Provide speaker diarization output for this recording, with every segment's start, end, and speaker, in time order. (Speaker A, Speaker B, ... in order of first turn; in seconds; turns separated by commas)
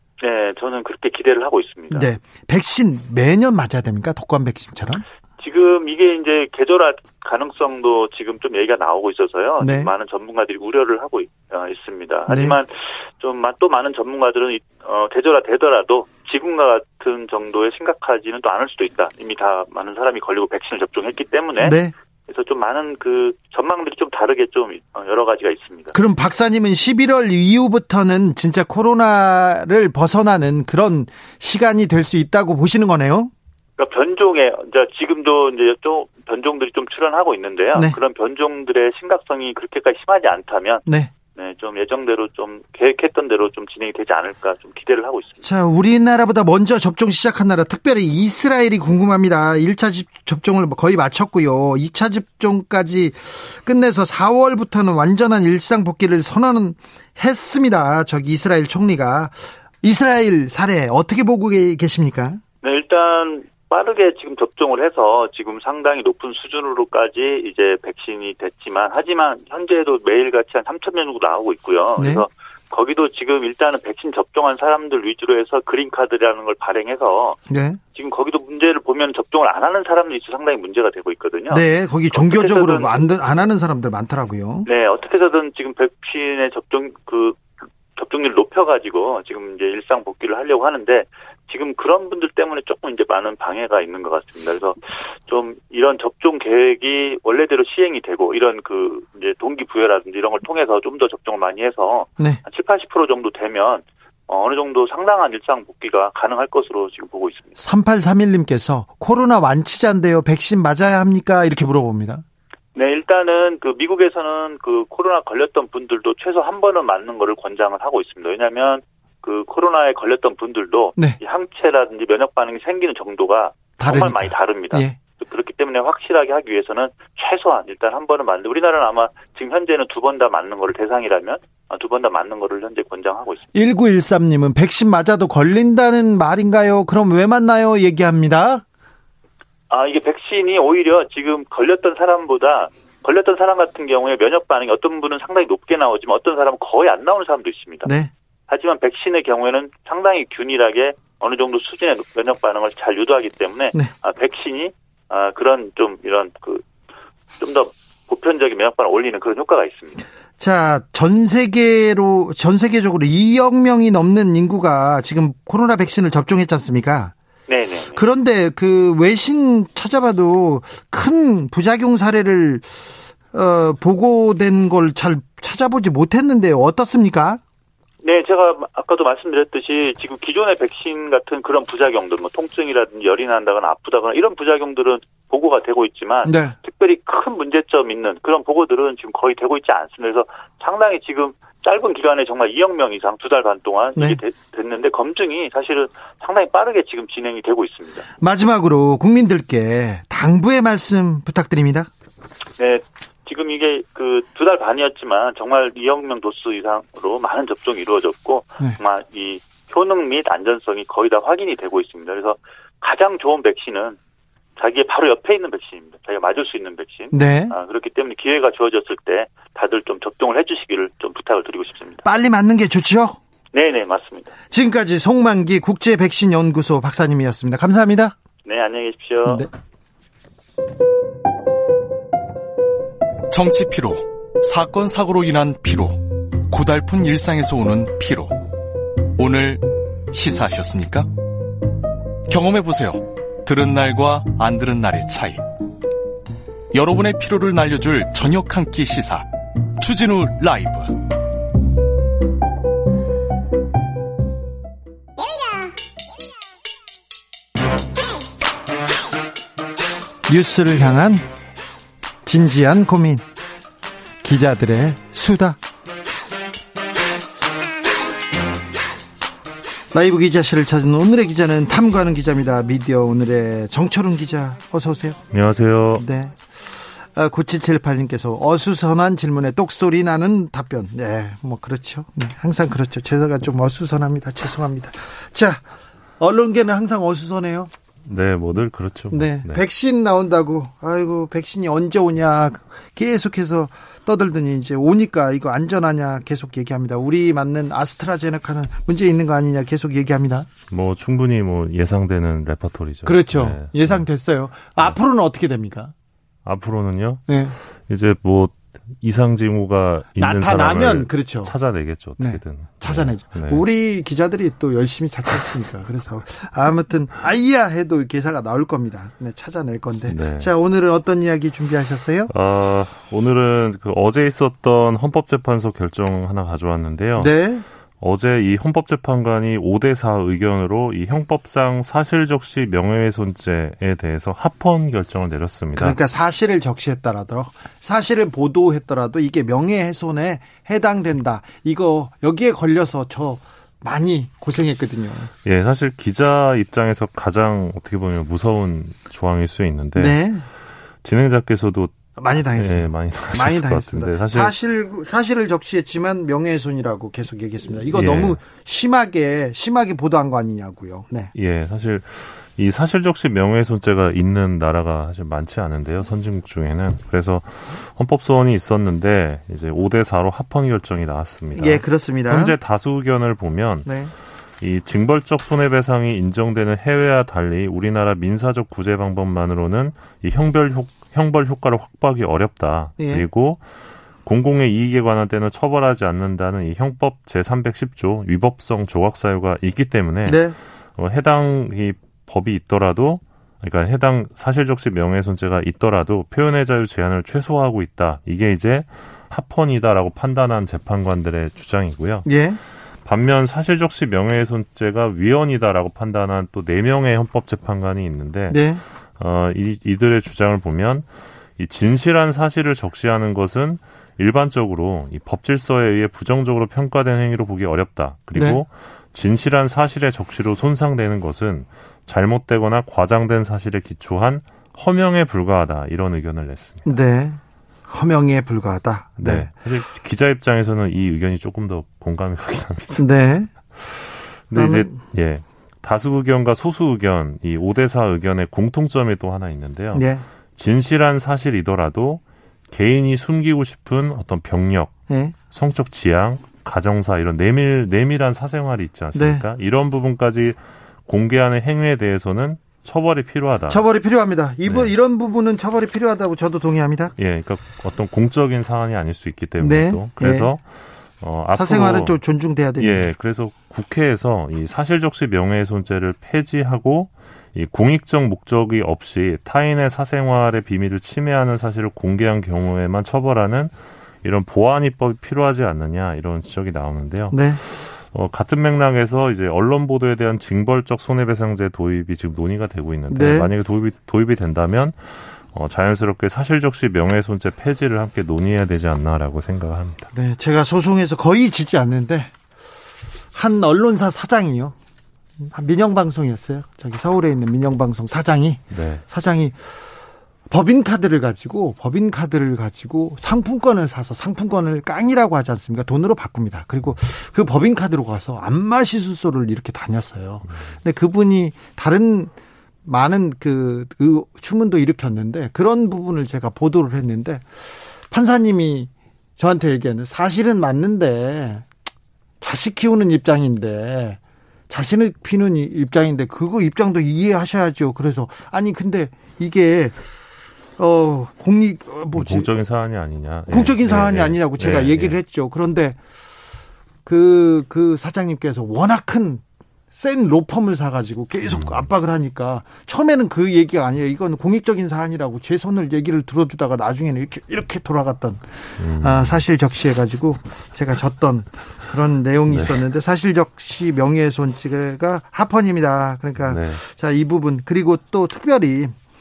Speaker A: 0.2-2.1, Speaker B: 1.9-5.0, Speaker A: 5.4-25.9, Speaker B: 9.6-9.9, Speaker B: 12.3-12.6, Speaker B: 21.6-21.9, Speaker B: 25.9-33.3, Speaker A: 33.8-40.8, Speaker A: 41.3-45.4, Speaker B: 45.4-62.4, Speaker A: 62.6-77.4, Speaker B: 72.0-72.2, Speaker B: 77.5-77.8, Speaker A: 77.9-83.0, Speaker B: 81.5-84.7, Speaker A: 84.7-87.4, Speaker A: 88.0-107.5, Speaker B: 107.6-112.2, Speaker A: 112.7-133.4, Speaker B: 123.8-125.0, Speaker B: 133.5-138.6, Speaker A: 139.7-147.9, Speaker B: 147.8-148.1, Speaker A: 148.5-156.6, Speaker A: 157.4-160.1, Speaker B: 160.4-167.1, Speaker A: 167.5-168.0, Speaker B: 167.9-177.4, Speaker A: 178.0-198.1, Speaker B: 186.2-186.5, Speaker B: 198.2-201.9, Speaker A: 202.6-214.0, Speaker A: 214.6-222.0, Speaker B: 217.1-217.5, Speaker B: 222.0-223.2, Speaker A: 223.5-224.3, Speaker B: 224.5-228.1, Speaker A: 228.4-229.4, Speaker C: 233.3-238.3, Speaker C: 239.2-241.1, Speaker C: 242.3-245.4, Speaker C: 246.7-249.2, Speaker C: 249.8-250.9, Speaker B: 260.3-261.3, Speaker B: 262.2-263.2, Speaker B: 264.2-265.6, Speaker B: 269.9-275.2, Speaker D: 275.3-276.0, Speaker B: 276.0-285.6, Speaker B: 286.2-287.7, Speaker D: 288.0-289.6, Speaker B: 289.1-300.5, Speaker D: 300.7-304.0, Speaker B: 303.0-305.9, Speaker D: 306.4-307.3, Speaker B: 307.3-307.6, Speaker D: 307.8-313.6, Speaker B: 310.1-311.5, Speaker B: 312.2-322.3, Speaker D: 320.1-320.5, Speaker D: 322.3-327.4, Speaker B: 327.2-327.6, Speaker D: 328.0-336.0, Speaker B: 335.8-345.3, Speaker D: 345.4-350.2, Speaker B: 349.9-350.4, Speaker D: 351.0-354.5, Speaker B: 352.1-361.3, Speaker D: 357.9-358.4, Speaker D: 361.3-373.9, Speaker B: 371.5-372.6, Speaker B: 373.8-374.1, Speaker D: 374.6-383.6, Speaker B: 383.0-383.2, Speaker D: 384.2-402.3, Speaker B: 390.2-390.6, Speaker B: 402.2-402.6, Speaker D: 403.0-411.1, Speaker B: 408.5-408.8, Speaker D: 411.6-426.9, Speaker B: 418.4-418.6, Speaker B: 426.8-429.5, Speaker D: 429.2-433.0, Speaker B: 432.9-433.5, Speaker D: 434.5-445.0, Speaker B: 434.5-435.0, Speaker B: 439.9-440.2, Speaker B: 445.1-445.3, Speaker D: 445.5-453.8, Speaker B: 449.1-449.4, Speaker B: 453.7-457.1, Speaker D: 457.2-460.6, Speaker B: 459.6-460.5, Speaker D: 461.2-462.1, Speaker B: 461.5-463.1, Speaker D: 462.8-490.1, Speaker B: 477.3-477.6, Speaker B: 483.1-483.5, Speaker B: 490.1-492.3, Speaker B: 493.3-494.7, Speaker B: 495.4-499.6, Speaker D: 498.7-499.0, Speaker B: 500.5-512.3, Speaker B: 512.8-517.5, Speaker B: 518.1-521.6, Speaker B: 522.4-530.0, Speaker B: 530.8-532.6, Speaker D: 532.1-535.2, Speaker B: 533.5-536.0, Speaker B: 537.0-539.4, Speaker B: 539.9-559.0, Speaker D: 541.4-541.8, Speaker D: 548.8-549.4, Speaker D: 556.4-556.8